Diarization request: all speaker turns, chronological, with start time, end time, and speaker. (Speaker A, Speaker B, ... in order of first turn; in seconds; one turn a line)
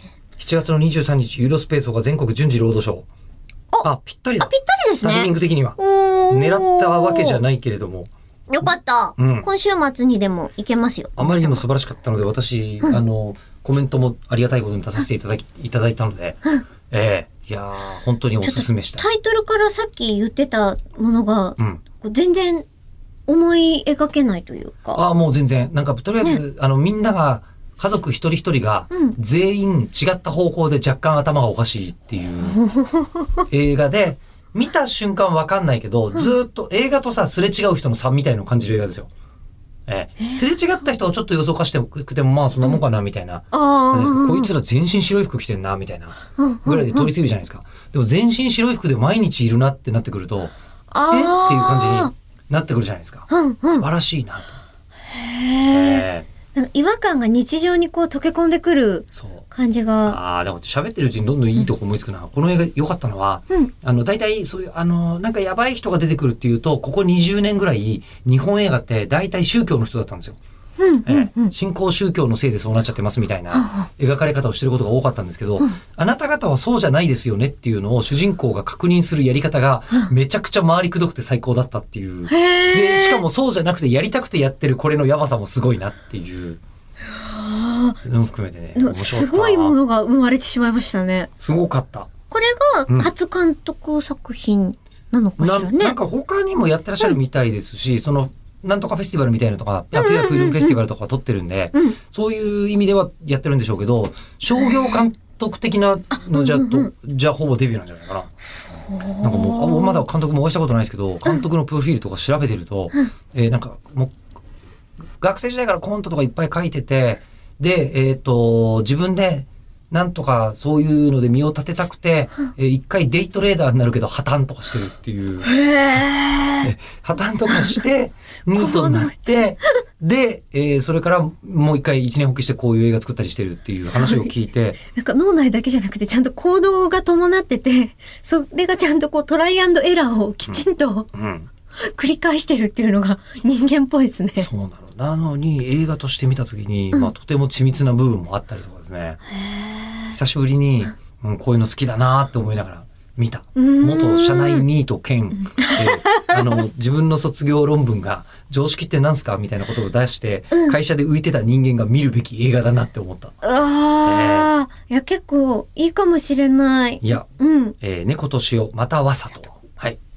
Speaker A: 0.4-3.1
Speaker A: 3.8-4.5
Speaker B: 4.4-7.4
Speaker A: 5.0-5.8
Speaker A: 6.3-8.1
Speaker B: 8.5-11.6
Speaker A: 9.2-9.5
Speaker A: 11.2-19.1
Speaker B: 18.4-22.6
Speaker B: 23.3-25.0
Speaker A: 24.9-32.6
Speaker B: 28.9-29.1
Speaker B: 32.5-33.4
Speaker A: 33.5-39.1
Speaker A: 39.9-50.5
Speaker B: 43.5-44.5
Speaker B: 46.4-47.1
Speaker B: 50.9-52.1
Speaker A: 51.1-53.2
Speaker B: 53.3-53.9
Speaker A: 53.8-54.6
Speaker B: 55.1-56.0
Speaker A: 55.7-56.3
Speaker B: 56.5-60.2
Speaker A: 59.1-59.4
Speaker A: 60.0-70.4
Speaker B: 70.8-71.5
Speaker A: 71.0-86.6
Speaker B: 73.5-73.9
Speaker B: 82.3-83.2
Speaker B: 87.1-88.0
Speaker A: 88.0-89.7
Speaker B: 88.8-91.3
Speaker A: 91.4-92.1
Speaker B: 92.3-96.0
Speaker A: 95.4-108.3
Speaker B: 99.9-100.8
Speaker B: 106.3-106.9
Speaker B: 108.9-110.0
Speaker A: 109.2-114.1
Speaker A: 115.2-125.5
Speaker B: 125.5-126.7
Speaker A: 126.6-134.8
Speaker B: 128.5-129.2
Speaker B: 133.9-141.1
Speaker A: 140.5-141.5
Speaker B: 141.8-144.5
Speaker A: 144.4-149.2
Speaker B: 149.5-150.1
Speaker A: 150.1-163.4
Speaker B: 153.6-154.7
Speaker B: 155.5-156.4
Speaker B: 163.4-167.8
Speaker A: 164.0-164.5
Speaker A: 167.8-170.0